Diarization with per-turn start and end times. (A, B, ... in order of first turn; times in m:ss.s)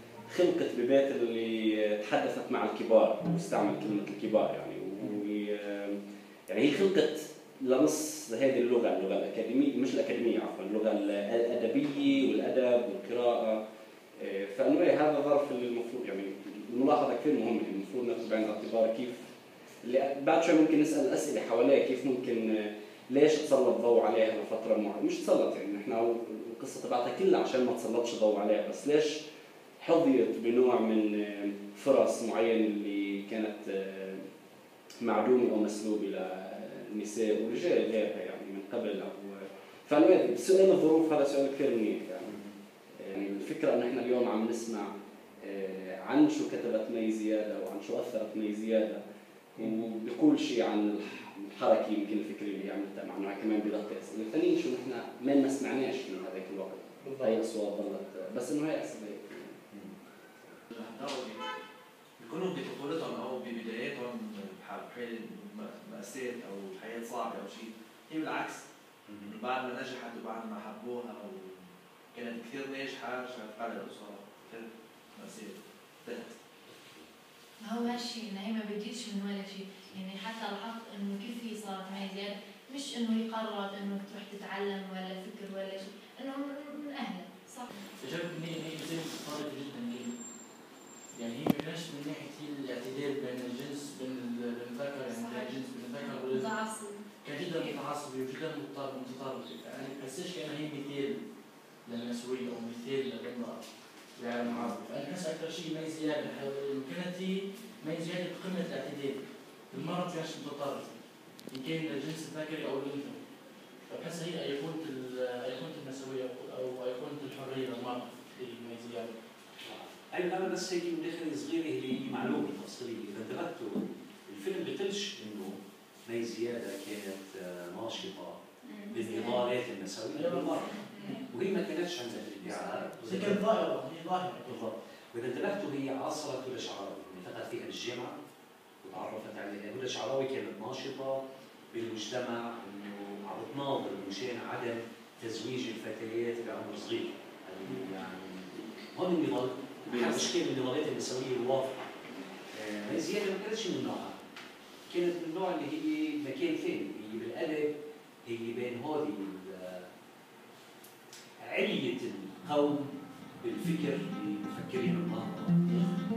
0:00.3-0:13.6 A
0:14.2-0:19.3 A
0:19.8-0:29.2 A
0:29.8-0:34.2 A
0:35.0-0:42.4 A
0:43.0-0:49.0 A
0:49.6-0:59.6 A
0:57.0-0:57.4 B
1:00.7-1:01.4 C
1:02.2-1:08.6 C
1:09.1-1:09.4 D
1:09.2-1:11.6 C
1:12.1-1:14.6 C
1:15.2-1:16.3 C
1:17.6-1:27.7 E
1:28.0-1:30.2 B
1:31.1-1:36.5 B
1:35.1-1:37.0 E
1:37.2-1:41.2 B
1:41.8-1:50.9 B
1:51.5-1:53.2 B
1:53.9-1:59.1 B
1:59.6-2:13.4 D
2:08.7-2:09.4 E
2:10.1-2:11.2 B
2:10.9-2:11.2 E
2:13.0-2:14.7 B
2:14.4-2:18.2 D
2:18.8-2:31.8 D
2:29.8-2:30.3 A
2:32.5-2:34.2 D
2:34.9-2:37.7 D
2:38.2-2:39.9 D
2:41.4-2:45.8 D